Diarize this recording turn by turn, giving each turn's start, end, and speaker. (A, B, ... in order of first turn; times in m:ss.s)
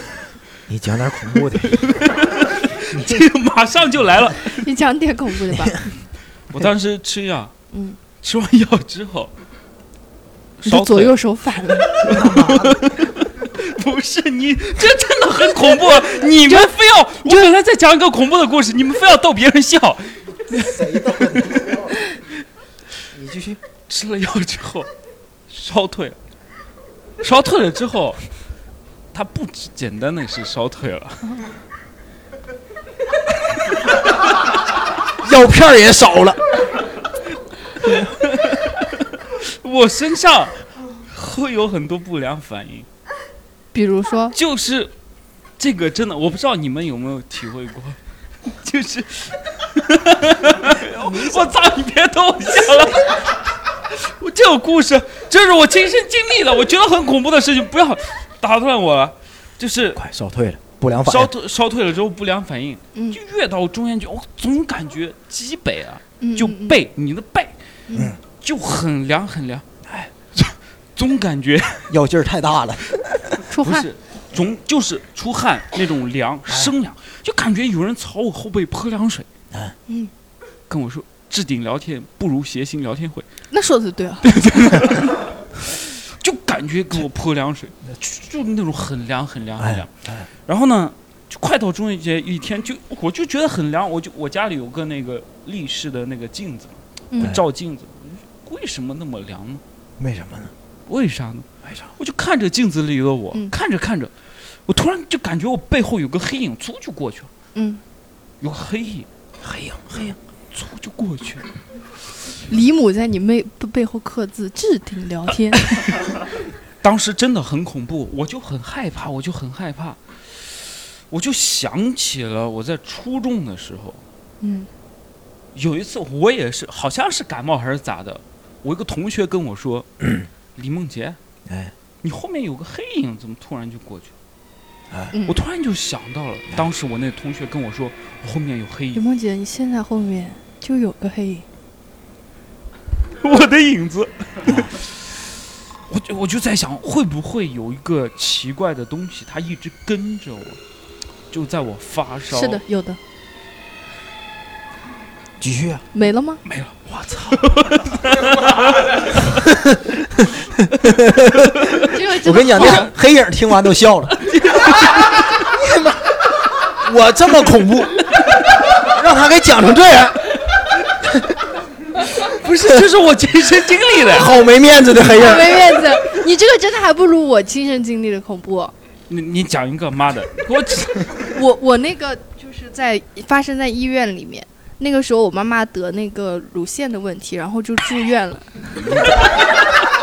0:00.7-0:02.0 A
0:01.8-0:04.6 B
0:02.9-0:03.3 A
0:04.5-0:05.8 C
0:06.5-0:07.5 B
0:07.7-0:08.0 C
0:08.2-0:09.3 B
0:10.6-0:11.1 B
0:10.6-0:12.0 C
0:12.0-0:21.8 B
0:12.1-0:12.8 A
0:16.4-0:16.7 C
0:17.2-0:17.5 C
0:20.5-0:22.0 A
0:23.1-0:23.6 A
0:23.9-0:24.9 B
0:25.5-0:26.2 B
0:27.2-0:28.2 B
0:29.1-0:31.4 B
0:35.2-0:36.4 A
0:37.8-0:42.9 B
0:43.7-0:44.4 C
0:44.3-0:44.9 B
0:45.6-0:53.3 B
0:51.0-0:51.5 A
0:53.9-1:00.0 B
1:00.0-1:01.3 A
1:01.0-1:07.6 B
1:06.2-1:06.8 C
1:07.9-1:08.2 C
1:08.4-1:09.7 B
1:10.4-1:11.9 B
1:11.9-1:13.4 A
1:13.5-1:13.9 C
1:13.6-1:19.3 B
1:20.7-1:23.3 B
1:23.5-1:24.3 C
1:24.2-1:29.9 B
1:29.6-1:30.3 A
1:30.5-1:39.6 B
1:37.1-1:37.4 C
1:40.0-1:40.5 A
1:40.9-1:44.1 B
1:44.7-1:47.3 B
1:47.6-1:47.8 C
1:48.4-1:49.1 B
1:49.4-1:50.0 A
1:49.9-1:51.5 B
1:52.5-1:55.8 C
1:56.8-2:04.0 B
2:04.4-2:04.7 C
2:05.6-2:11.2 B
2:11.5-2:11.7 A
2:12.0-2:14.1 B
2:15.1-2:15.4 C
2:15.3-2:19.0 B
2:19.0-2:21.4 C
2:23.2-2:25.0 B
2:25.9-2:30.6 B
2:31.3-2:32.6 B
2:32.3-2:33.0 C
2:35.4-2:35.8 A
2:35.9-2:36.4 C
2:36.4-2:39.4 B
2:39.4-2:44.2 A
2:41.8-2:42.9 C
2:44.2-2:45.4 B
2:45.5-2:50.4 A
2:52.1-2:54.3 B
2:54.1-2:55.7 A
2:55.1-2:58.7 C
2:59.1-3:01.3 B
3:01.3-3:08.5 C
3:08.9-3:09.5 B